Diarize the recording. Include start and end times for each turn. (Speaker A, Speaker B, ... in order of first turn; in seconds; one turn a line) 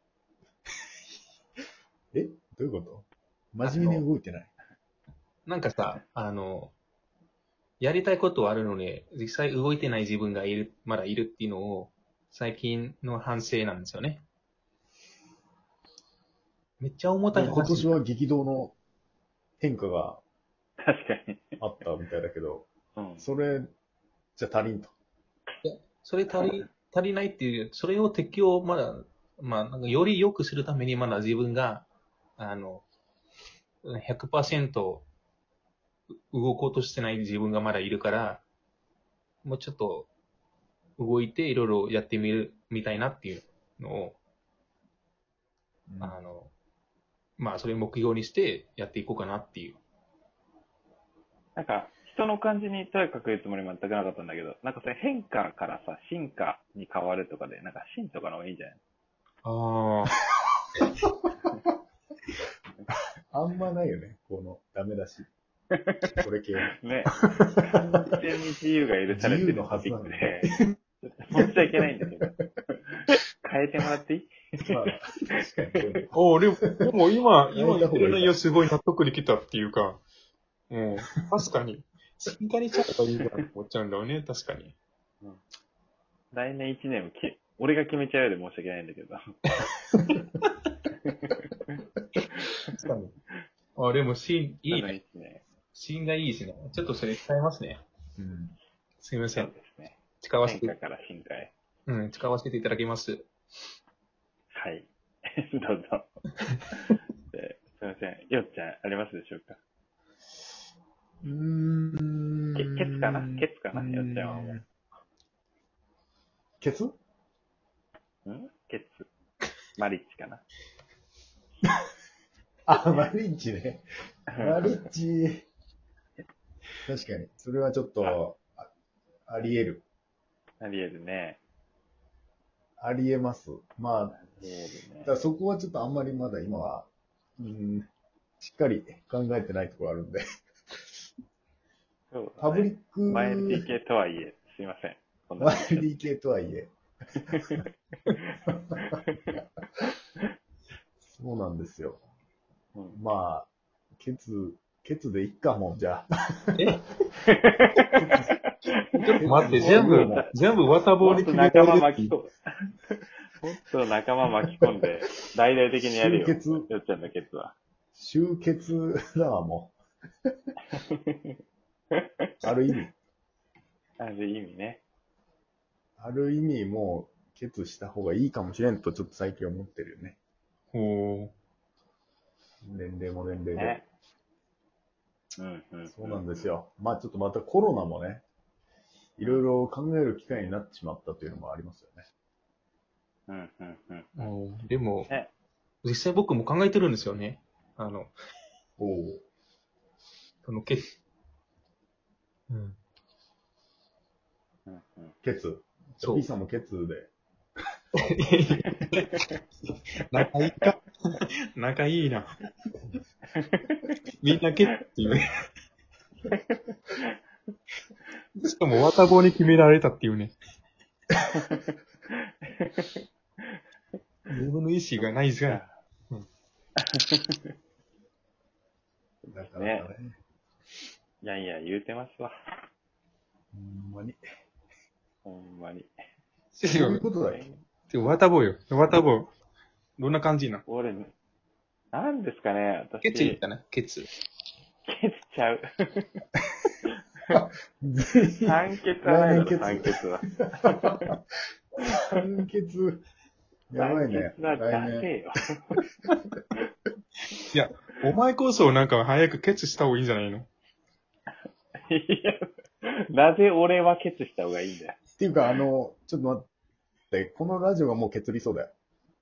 Speaker A: 2.1-4.5
Speaker B: 3.6-4.0
Speaker B: 5.5-6.7
Speaker B: 7.8-14.2
Speaker B: 16.8-18.0
Speaker A: 17.3-18.7
Speaker A: 19.6-20.2
Speaker C: 20.8-21.6
Speaker A: 21.6-22.7
Speaker C: 22.9-23.2
Speaker A: 23.2-23.7
Speaker A: 24.4-24.9
Speaker B: 25.6-31.9
Speaker B: 32.4-32.9
Speaker B: 33.8-35.1
Speaker B: 36.3-38.4
Speaker B: 39.4-40.1
Speaker B: 41.0-44.2
Speaker A: 45.9-46.2
Speaker B: 46.0-46.5
Speaker B: 47.4-49.8
Speaker C: 51.5-58.8
Speaker B: 59.4-60.2
Speaker A: 63.3-65.3
Speaker C: 65.7-66.0
Speaker A: 66.2-66.7
Speaker C: 66.8-74.9
Speaker A: 69.1-70.7
Speaker A: 71.4-71.9
Speaker A: 74.6-76.8
Speaker B: 76.1-80.0
Speaker A: 77.5-78.4
Speaker B: 80.7-84.8
Speaker C: 86.3-89.2
Speaker B: 89.6-90.1
Speaker C: 91.0-91.8
Speaker C: 92.3-92.8
Speaker B: 92.7-93.1
Speaker B: 93.8-94.9
Speaker C: 94.7-95.4
Speaker B: 95.7-97.8
Speaker A: 98.2-98.5
Speaker B: 99.0-99.5
Speaker C: 99.3-101.5
Speaker B: 100.2-100.7
Speaker B: 101.9-103.3
Speaker C: 104.5-106.1
Speaker C: 106.7-109.6
Speaker A: 111.2-114.6
Speaker C: 112.5-114.6
Speaker A: 116.6-117.0
Speaker C: 118.2-119.1
Speaker C: 119.8-120.4
Speaker A: 122.7-125.5
Speaker A: 126.8-128.7
Speaker A: 129.3-129.8
Speaker C: 130.6-131.4
Speaker A: 132.8-134.2
Speaker C: 134.1-135.2
Speaker A: 135.0-140.2
Speaker C: 142.1-145.9
Speaker A: 142.4-143.7
Speaker A: 145.4-146.7
Speaker A: 147.3-147.6
Speaker C: 148.1-149.3
Speaker A: 151.0-152.0
Speaker A: 152.9-156.5
Speaker B: 156.5-156.9
Speaker C: 157.3-158.5
Speaker B: 158.9-162.2
Speaker C: 159.0-160.4
Speaker A: 159.2-160.2
Speaker C: 161.0-162.3
Speaker C: 163.4-167.5
Speaker A: 165.9-166.7
Speaker A: 167.9-169.8
Speaker C: 170.7-171.3
Speaker A: 172.4-172.9
Speaker C: 174.0-174.8
Speaker A: 176.0-180.2
Speaker B: 180.7-181.3
Speaker A: 182.6-183.8
Speaker C: 183.5-183.8
Speaker C: 185.4-186.5
Speaker A: 185.9-188.2
Speaker A: 189.2-192.1
Speaker C: 193.3-194.1
Speaker B: 194.2-195.1
Speaker B: 195.8-198.1
Speaker A: 198.8-199.2
Speaker B: 200.4-200.8
Speaker B: 202.5-202.8
Speaker C: 204.7-205.1
Speaker A: 205.2-207.1
Speaker B: 206.0-206.2
Speaker B: 207.9-209.2
Speaker B: 210.1-212.4
Speaker C: 213.4-213.9
Speaker B: 214.2-215.2
Speaker C: 216.3-217.1
Speaker B: 218.4-220.3
Speaker C: 221.3-223.6
Speaker B: 224.3-226.2
Speaker C: 225.4-225.8
Speaker C: 226.9-227.3
Speaker C: 229.2-229.9
Speaker A: 229.3-230.1
Speaker C: 231.2-232.3
Speaker A: 233.5-234.2
Speaker C: 235.2-235.9
Speaker B: 236.5-237.0
Speaker A: 236.7-237.4
Speaker C: 237.3-237.6
Speaker B: 237.9-239.3
Speaker B: 240.0-240.6
Speaker C: 240.7-241.1
Speaker C: 241.9-243.4
Speaker B: 243.0-244.1
Speaker C: 244.8-246.1
Speaker A: 247.3-251.1
Speaker C: 248.4-251.0
Speaker A: 252.1-253.0
Speaker A: 253.7-255.1
Speaker C: 253.8-255.8
Speaker B: 257.5-260.5
Speaker C: 261.9-265.0
Speaker A: 265.2-266.5
Speaker A: 267.1-268.7